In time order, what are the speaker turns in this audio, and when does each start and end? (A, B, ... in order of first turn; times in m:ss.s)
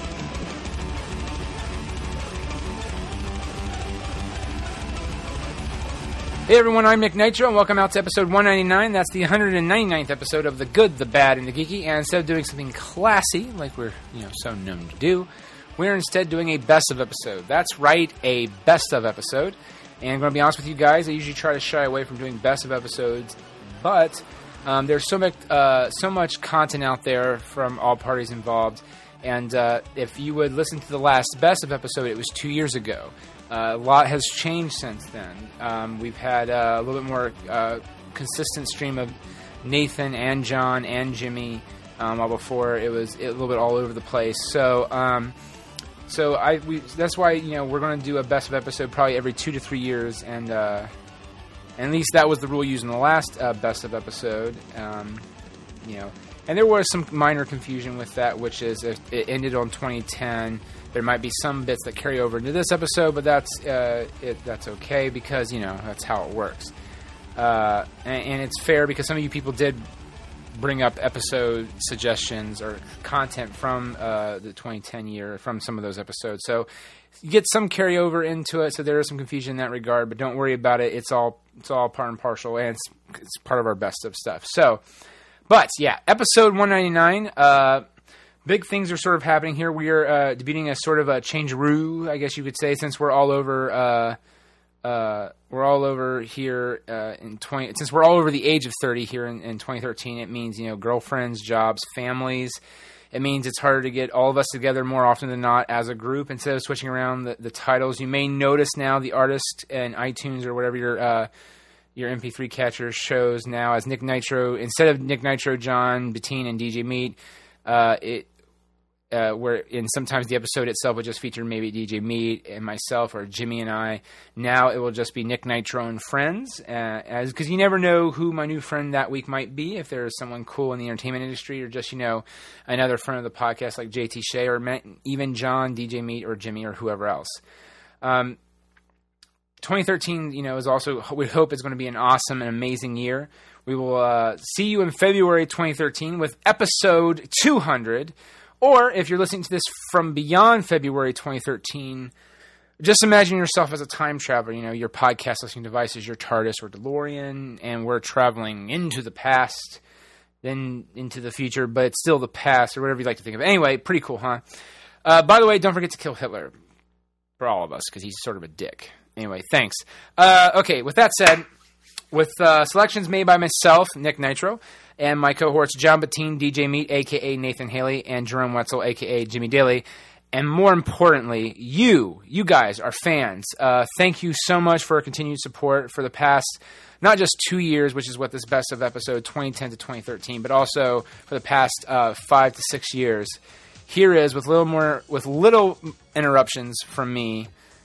0:06.5-0:45.3 A
0:46.1-0:50.9 A
0:51.8-0:55.2 A
0:55.8-1:06.7 A
1:07.4-1:09.9 A
1:10.5-1:16.7 A
1:17.2-1:24.8 A
1:25.5-1:27.8 A
1:28.4-1:34.2 A
1:34.8-1:42.6 A
1:43.1-1:51.3 A
1:52.0-1:58.3 A
1:59.1-2:17.4 A
2:18.0-2:18.4 A
2:19.6-2:32.1 A
2:32.8-2:39.8 A
2:40.4-2:44.4 A
2:45.0-2:46.5 A
2:47.4-2:51.4 A
2:52.1-3:17.5 A